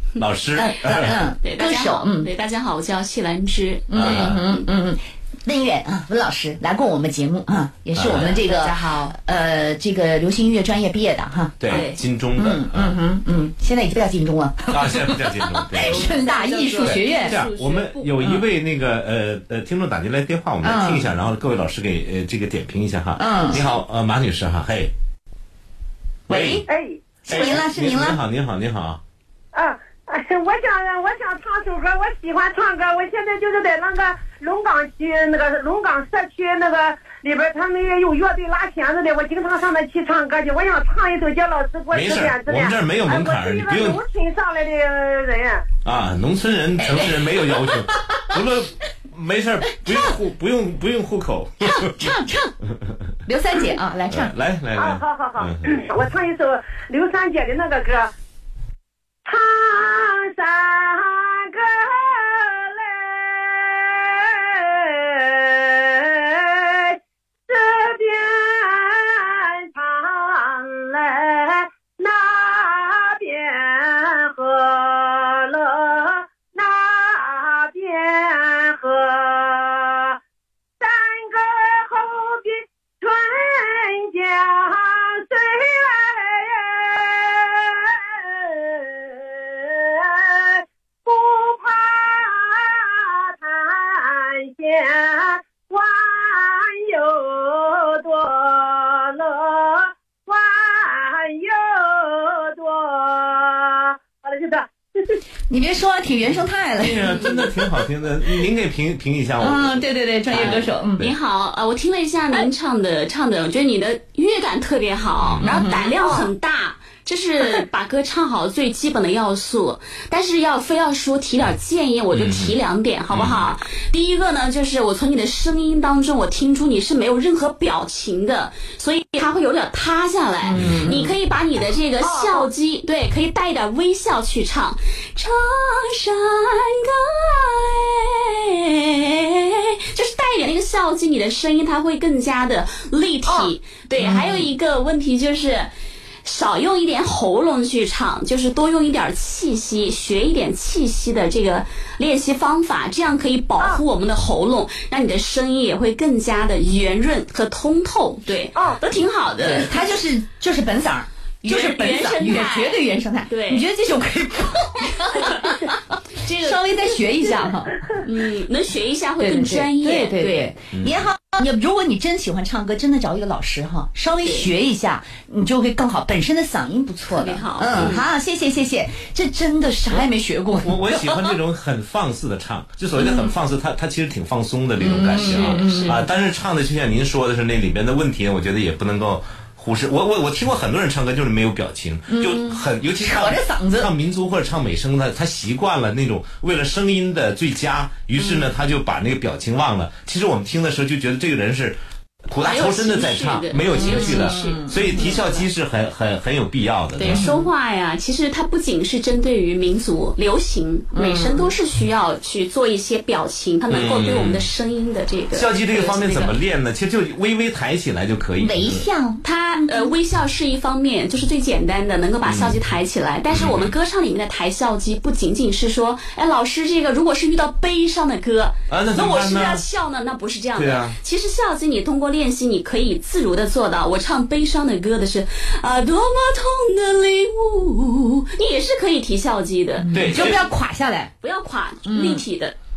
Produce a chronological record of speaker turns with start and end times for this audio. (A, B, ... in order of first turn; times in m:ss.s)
0:00.2-0:01.2 A
0:00.6-0:02.3 B
0:00.9-0:04.6 C
0:03.9-0:17.4 B
0:03.9-0:04.4 A
0:08.0-0:08.4 A
0:08.0-0:09.1 C
0:11.6-0:13.0 A
0:11.7-0:12.0 C
0:14.7-0:16.2 A
0:15.7-0:18.2 C
0:16.8-0:24.9 A
0:20.6-0:21.1 B
0:23.2-0:23.6 B
0:26.3-0:26.7 B
0:26.3-0:26.6 A
0:26.7-0:27.5 D
0:27.3-0:28.2 B
0:27.3-0:29.0 A
0:29.5-0:45.6 D
0:41.9-0:44.0 A
0:45.8-0:51.9 A
0:46.8-0:48.3 B
0:49.9-0:50.1 B
0:51.6-0:52.5 B
0:53.3-0:54.3 B
0:54.1-0:55.7 A
0:54.8-0:58.1 D
0:59.2-1:20.2 D
1:20.8-1:45.2 D
1:45.5-1:47.7 B
1:46.8-1:49.8 A
1:49.4-1:51.1 B
1:50.3-2:25.7 C
1:55.2-1:55.5 A
1:55.4-1:55.9 B
2:02.1-2:02.6 A
2:03.1-2:03.5 A
2:10.4-2:11.2 B
2:12.0-2:12.5 D
2:23.3-2:23.5 D
2:24.0-2:24.5 B
2:26.2-2:39.7 C
2:38.5-2:38.8 D
2:39.4-2:48.0 B
2:41.4-2:43.7 C
2:45.1-2:45.5 C
2:46.1-2:47.5 C
2:48.0-2:50.5 C
2:49.2-3:01.3 B
2:50.7-2:51.0 A
2:54.2-2:54.5 C
2:57.1-2:58.1 C
2:57.7-2:58.0 A
3:00.5-3:21.8 A
3:03.0-3:03.3 B
3:04.8-3:06.0 B
3:04.8-3:06.0 C
3:12.1-3:13.9 B
3:22.3-3:27.3 A
3:22.4-3:25.4 C
3:23.7-3:25.2 B
3:27.0-3:36.4 C
3:27.0-3:27.5 B
3:30.9-3:31.5 B
3:33.7-3:34.5 A
3:35.3-3:38.8 A
3:38.4-3:39.9 B
3:39.2-4:00.4 C
3:42.2-3:42.6 A
3:43.3-3:43.7 A
3:48.7-3:49.6 A
3:50.5-3:51.0 A
3:59.8-4:01.1 B
3:59.9-4:00.4 A
4:01.2-4:02.6 C
4:01.8-4:02.2 B